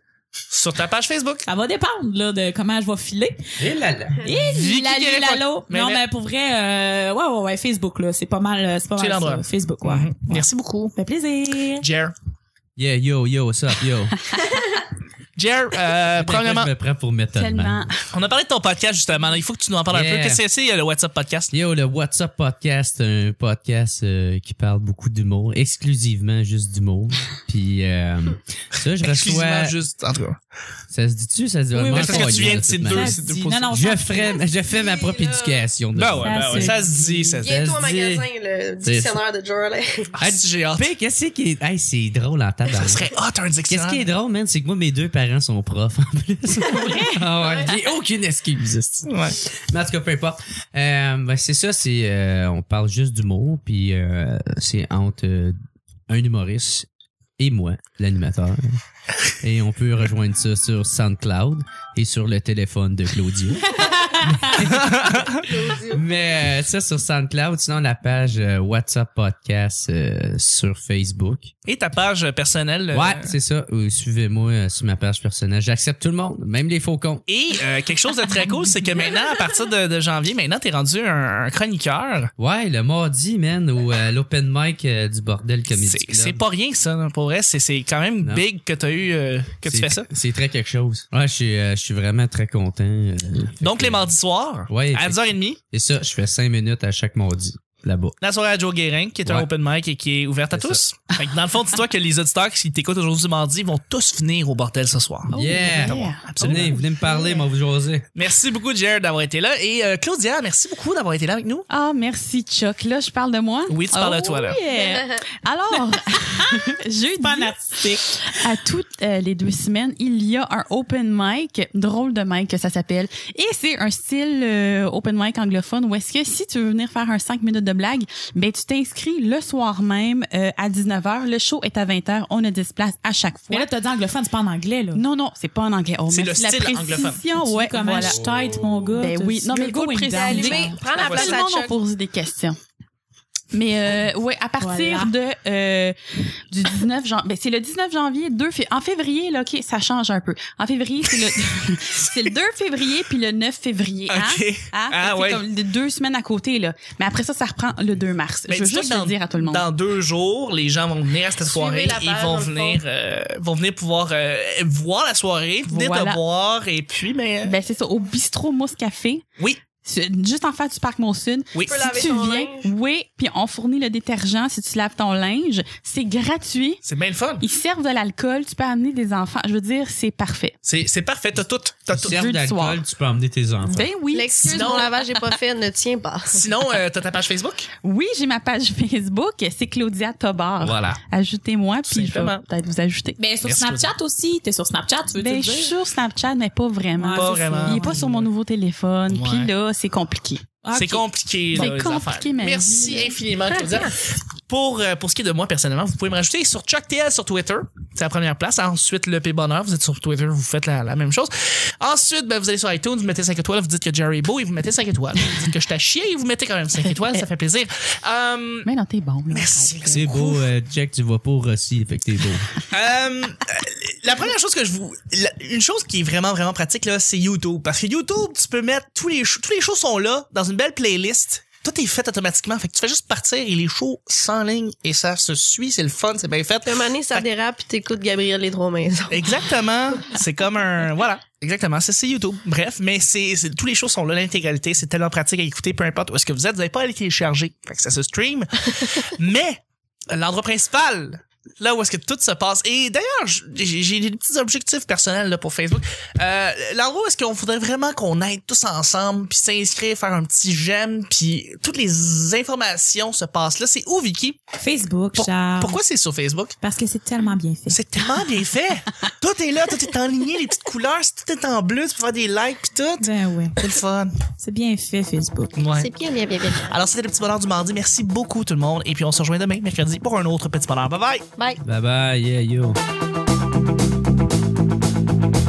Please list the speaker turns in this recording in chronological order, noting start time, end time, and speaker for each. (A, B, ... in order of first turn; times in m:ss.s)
0:00.5-0:01.5 A
0:01.5-0:03.6 B
0:03.6-0:04.3 C
0:04.2-0:11.8 B
0:04.4-0:06.0 A
0:09.0-0:10.9 A
0:11.8-0:12.2 A
0:12.8-0:14.2 C
0:15.4-0:16.7 A
0:16.2-0:17.9 C
0:17.4-0:18.0 D
0:18.1-0:21.5 A
0:19.9-0:20.4 C
0:21.5-0:29.7 C
0:29.0-0:30.4 A
0:30.9-0:38.3 C
0:31.7-0:34.5 B
0:31.9-0:33.7 A
0:34.7-0:35.6 E
0:36.0-0:37.6 A
0:36.2-0:36.8 B
0:37.4-0:40.1 E
0:38.8-0:39.2 C
0:40.2-0:43.1 C
0:40.2-0:40.9 A
0:42.8-0:44.1 A
0:43.7-0:55.6 C
0:46.6-0:47.2 B
0:47.4-0:47.7 E
0:49.1-0:49.4 A
0:56.1-0:56.9 C
0:57.4-0:58.8 C
0:59.4-1:05.2 C
1:04.6-1:05.4 A
1:05.3-1:06.0 E
1:05.8-1:11.5 C
1:11.6-1:13.3 A
1:12.9-1:17.2 C
1:17.3-1:22.3 A
1:22.4-1:26.4 C
1:25.7-1:30.1 A
1:29.6-1:34.1 C
1:33.6-1:35.6 A
1:34.7-1:38.2 C
1:38.2-1:46.7 A
1:40.5-1:40.8 C
1:45.3-1:47.5 D
1:45.3-1:48.1 C
1:48.1-1:51.7 A
1:51.7-1:57.6 D
1:53.7-1:54.6 A
1:57.2-1:58.4 B
1:58.2-2:13.7 D
2:13.5-2:15.0 B
2:14.9-2:18.2 D
2:16.1-2:17.2 A
2:17.4-2:20.8 B
2:17.8-2:18.9 C
2:19.0-2:22.6 D
2:20.2-2:21.8 E
2:21.0-2:21.4 A
2:23.5-2:26.0 D
2:24.6-2:25.1 B
2:26.5-2:39.7 D
2:34.1-2:35.4 A
2:38.5-2:47.6 A
2:41.4-2:42.8 E
2:45.7-2:46.2 D
2:47.4-2:49.2 D
2:49.8-2:56.8 D
2:51.5-2:51.9 A
2:51.7-2:52.7 E
2:56.8-2:57.4 A
2:57.4-3:00.6 D
3:00.6-3:02.2 A
3:02.0-3:03.9 C
3:02.0-3:02.8 D
3:03.6-3:04.9 D
3:04.1-3:06.5 E
3:04.5-3:04.9 A
3:06.4-3:07.7 A
3:07.8-3:13.2 D
3:10.6-3:11.0 A
3:11.9-3:12.4 A
3:13.2-3:15.7 B
3:13.4-3:13.9 A
3:15.2-3:20.5 D
3:17.0-3:18.0 B
3:17.2-3:18.3 A
3:19.1-3:19.5 A
3:20.6-3:21.7 B
3:20.7-3:38.7 A
3:21.5-3:23.2 D
3:23.5-3:23.9 E
3:38.7-3:40.1 D
3:39.3-3:40.5 A
3:39.9-3:42.5 C
3:42.7-3:57.3 A
3:56.6-3:59.5 E
3:59.1-4:24.4 A
4:24.6-4:25.8 B
4:25.2-4:26.5 A
4:26.6-4:27.8 B
4:27.7-4:34.2 A
4:33.0-4:33.6 B
4:34.4-4:35.6 B
4:35.6-4:35.9 A
4:35.7-4:36.8 E
4:36.7-4:41.3 A
4:41.6-4:42.8 C